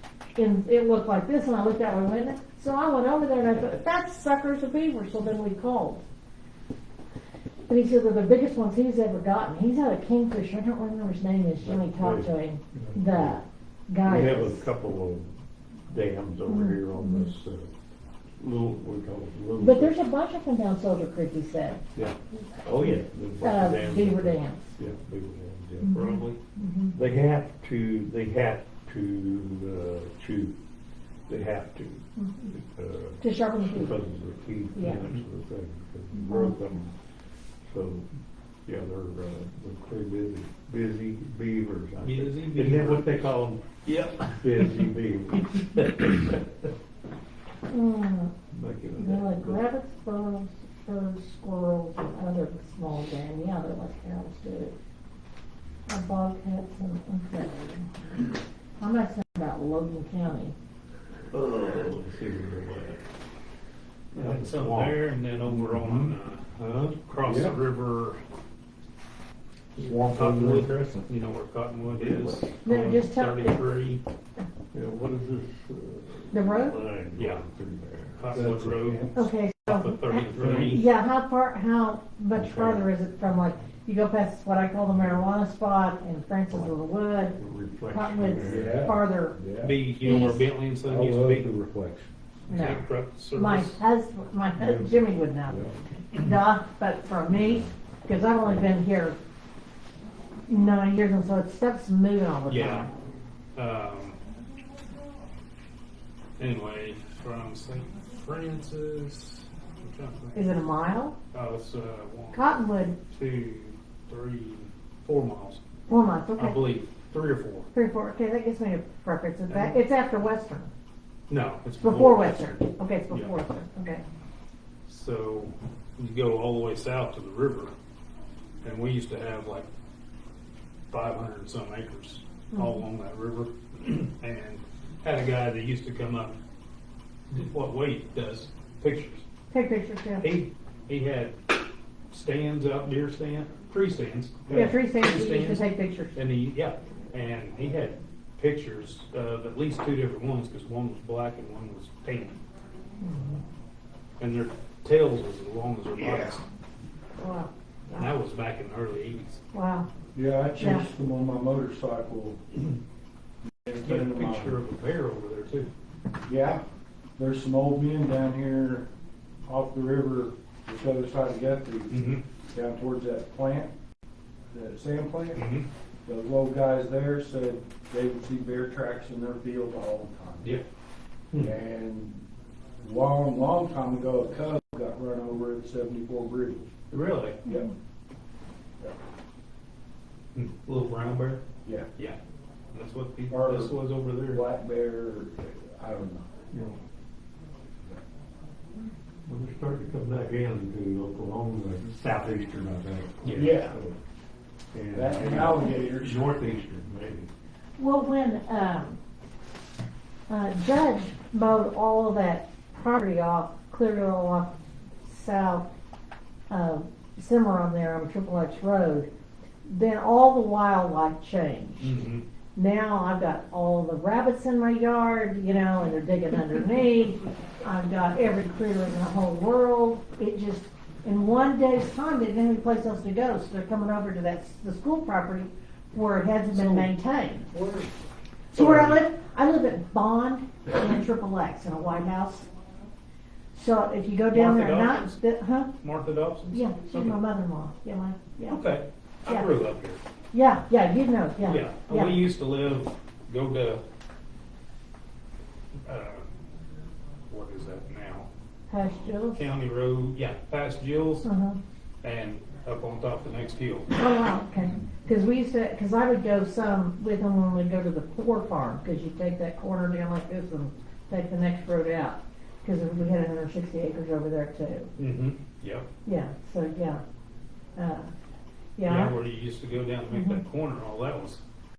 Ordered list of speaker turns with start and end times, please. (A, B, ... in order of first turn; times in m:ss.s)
0:00.4-0:06.0 A
0:07.7-0:14.7 A
0:11.6-0:13.4 B
0:14.1-0:15.3 B
0:15.9-0:17.7 B
0:16.5-0:17.3 A
0:18.4-0:20.0 B
0:19.6-0:21.8 A
0:22.0-0:26.3 B
0:22.8-0:24.8 A
0:25.8-0:27.0 A
0:26.9-0:30.6 B
0:31.3-0:37.0 B
0:32.2-0:32.5 A
0:33.2-0:33.9 A
0:34.8-0:35.0 A
0:36.1-0:36.8 A
0:37.6-0:38.1 B
0:38.7-0:43.7 B
0:42.0-0:43.2 C
0:43.8-0:44.9 C
0:44.3-0:46.4 B
0:47.7-0:48.3 A
0:48.5-0:49.6 B
0:49.0-0:54.8 A
0:55.9-0:57.9 A
0:58.8-1:00.6 A
1:01.3-1:03.0 B
1:04.1-1:06.0 B
1:04.1-1:06.5 C
1:06.6-1:07.0 B
1:07.0-1:08.2 C
1:07.2-1:07.6 D
1:09.8-1:10.7 B
1:09.8-1:10.9 D
1:10.1-1:14.0 C
1:11.9-1:12.5 B
1:12.6-1:13.6 A
1:14.7-1:18.8 B
1:16.3-1:16.8 A
1:17.2-1:17.4 C
1:18.2-1:20.9 C
1:18.3-1:19.1 D
1:19.2-1:27.4 A
1:20.4-1:20.8 D
1:27.4-1:29.0 B
1:27.9-1:29.4 A
1:28.4-1:30.3 D
1:29.6-1:31.5 C
1:30.0-1:30.4 A
1:30.8-1:32.1 D
1:32.5-1:33.8 C
1:32.5-1:39.2 A
1:35.5-1:35.7 D
1:40.5-1:42.9 A
1:42.5-1:42.9 C
1:43.6-1:44.2 C
1:46.4-1:50.5 C
1:50.4-1:51.2 A
1:51.3-1:52.6 C
1:52.3-1:53.0 A
1:53.1-1:55.6 C
1:55.9-1:56.6 A
1:56.4-1:57.7 C
1:57.7-2:00.7 A
1:59.5-1:59.8 C
2:01.3-2:03.3 C
2:01.8-2:04.0 A
2:04.9-2:07.7 C
2:08.6-2:09.7 C
2:10.9-2:16.4 C
2:12.5-2:12.8 A
2:17.3-2:19.2 C
2:19.5-2:20.3 A
2:20.2-2:21.4 C
2:22.1-2:32.4 C
2:24.5-2:26.2 A
2:33.0-2:33.4 A
2:34.2-2:36.5 C
2:36.0-2:36.4 D
2:37.2-2:38.1 A
2:37.9-2:39.4 C
2:39.5-2:39.9 A
2:40.2-2:42.4 D
2:40.6-2:40.8 A
2:43.4-2:44.6 D
2:43.8-2:45.7 C
2:46.3-2:46.6 D
2:47.2-2:48.9 D
2:49.5-2:52.0 D
2:51.9-2:52.2 C
2:52.5-2:53.7 D
2:54.5-2:55.4 D
2:55.3-2:55.7 C
2:56.1-3:00.6 D
3:01.4-3:02.2 D
3:02.8-3:06.7 D
3:06.9-3:07.4 C
3:07.5-3:07.7 A
3:10.4-3:11.4 C
3:11.6-3:11.9 D
3:12.7-3:14.5 C
3:13.3-3:16.4 D
3:16.5-3:16.8 B
3:19.3-3:24.0 B
3:23.2-3:23.6 C
3:23.4-3:23.8 D
3:24.7-3:27.3 B
3:24.9-3:26.2 D
3:27.8-3:29.0 A
3:30.3-3:35.7 A
3:36.5-3:39.1 A
3:39.7-3:42.0 A
3:41.8-3:42.2 C
3:42.6-3:57.5 A
3:56.5-3:56.9 C
3:57.5-3:57.9 C
3:58.5-3:59.0 C
3:58.5-4:02.5 A
4:03.5-4:05.7 A
4:04.3-4:05.2 C
4:05.8-4:07.2 C
4:06.5-4:08.6 A
4:08.5-4:10.0 C
4:10.3-4:12.2 A
4:11.4-4:13.8 C
4:15.9-4:16.3 C
4:17.3-4:18.3 C
4:18.7-4:19.4 A
4:19.3-4:21.3 C
4:21.2-4:21.6 A
4:22.0-4:23.9 C
4:24.0-4:34.9 A
4:35.0-4:35.9 C
4:36.0-4:37.0 A
4:37.8-4:38.1 A
4:38.8-4:39.1 A
4:38.9-4:41.4 C
4:40.1-4:40.4 A